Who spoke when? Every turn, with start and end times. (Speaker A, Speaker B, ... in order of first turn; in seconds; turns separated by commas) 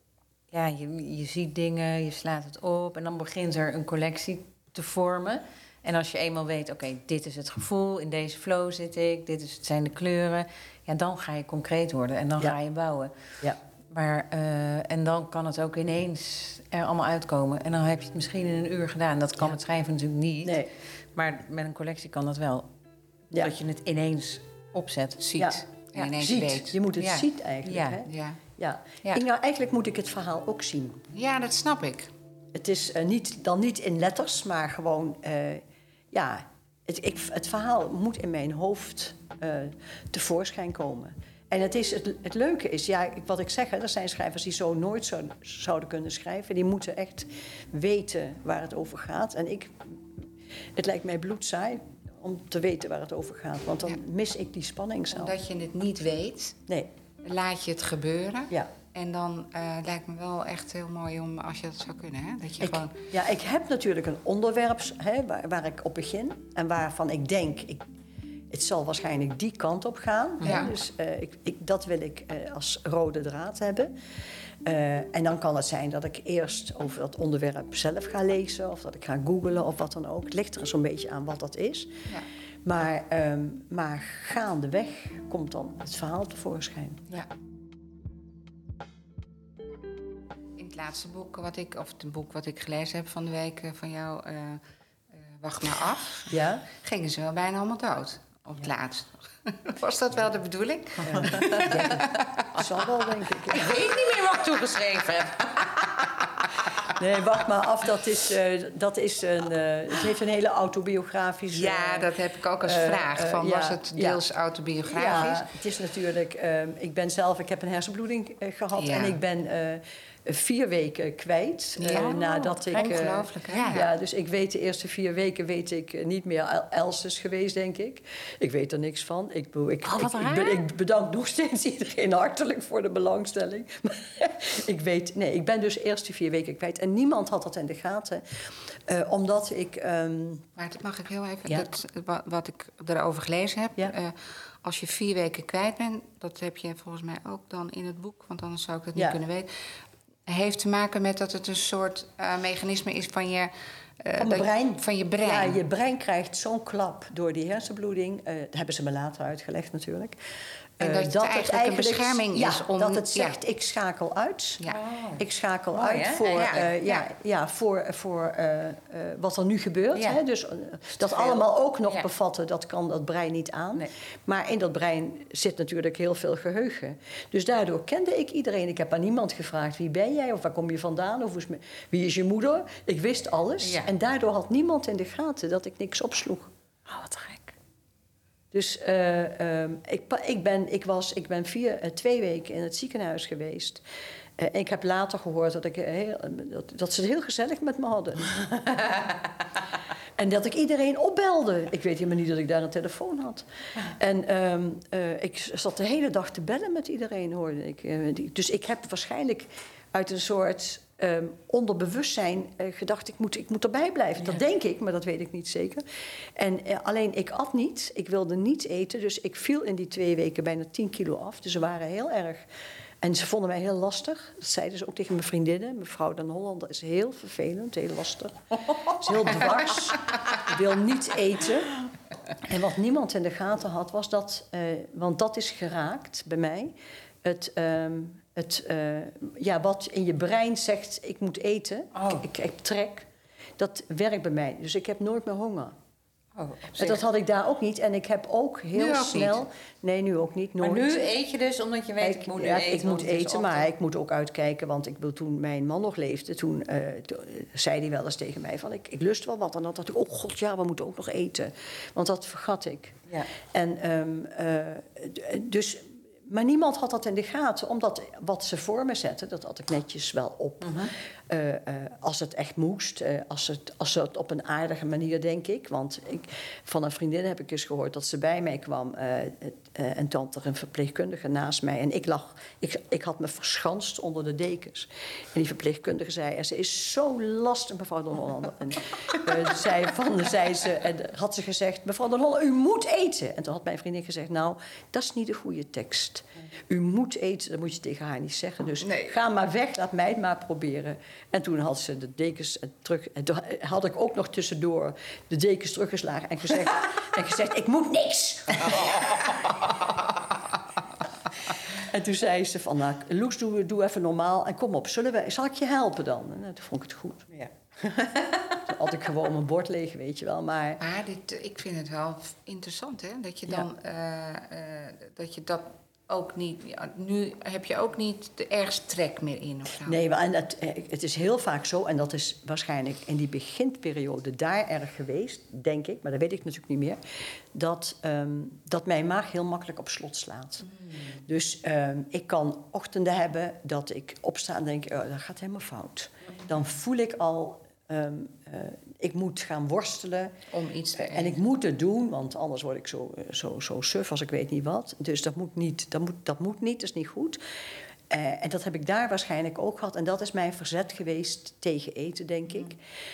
Speaker A: 0.5-13.1, Speaker A: 13.9-22.7, Speaker B: 20.4-20.7, Speaker A: 23.3-25.2, Speaker C: 25.2-26.9, Speaker B: 26.1-31.0, Speaker A: 27.0-28.0, Speaker C: 28.0-28.4, Speaker C: 31.1-32.1, Speaker B: 32.5-55.3, Speaker C: 55.1-56.6, Speaker C: 57.2-63.0, Speaker B: 62.6-67.8, Speaker B: 68.5-74.0, Speaker C: 70.4-70.8, Speaker B: 74.6-81.9, Speaker B: 82.6-87.1, Speaker C: 90.5-94.6, Speaker C: 95.2-102.5, Speaker B: 96.3-96.6, Speaker B: 101.0-103.8, Speaker A: 101.4-101.8, Speaker A: 103.5-106.5, Speaker B: 106.9-112.1, Speaker C: 111.5-115.5, Speaker B: 112.6-114.2, Speaker B: 114.9-140.5, Speaker C: 118.7-119.2, Speaker A: 121.8-123.7, Speaker C: 121.8-123.9, Speaker A: 129.8-130.6, Speaker C: 140.6-155.6, Speaker B: 154.2-164.6, Speaker C: 160.8-163.4, Speaker A: 164.7-166.3, Speaker B: 165.2-186.5, Speaker C: 166.2-167.0, Speaker A: 169.9-170.2, Speaker A: 171.0-172.0, Speaker A: 183.6-183.9, Speaker A: 186.9-187.5, Speaker B: 188.5-193.8, Speaker B: 194.4-199.2, Speaker B: 200.2-215.8, Speaker B: 216.3-222.5, Speaker B: 223.0-231.7, Speaker B: 232.4-245.7, Speaker A: 241.9-242.2, Speaker A: 246.4-247.0, Speaker B: 246.7-251.1, Speaker C: 248.7-249.4, Speaker A: 250.6-253.7, Speaker B: 252.0-309.5, Speaker A: 270.6-270.9, Speaker C: 298.8-299.2, Speaker C: 308.7-309.5, Speaker B: 311.7-317.3, Speaker A: 317.3-318.6, Speaker B: 318.6-320.8, Speaker C: 320.8-330.0, Speaker B: 329.8-350.4, Speaker C: 350.5-351.4, Speaker B: 351.0-357.4, Speaker B: 358.1-362.8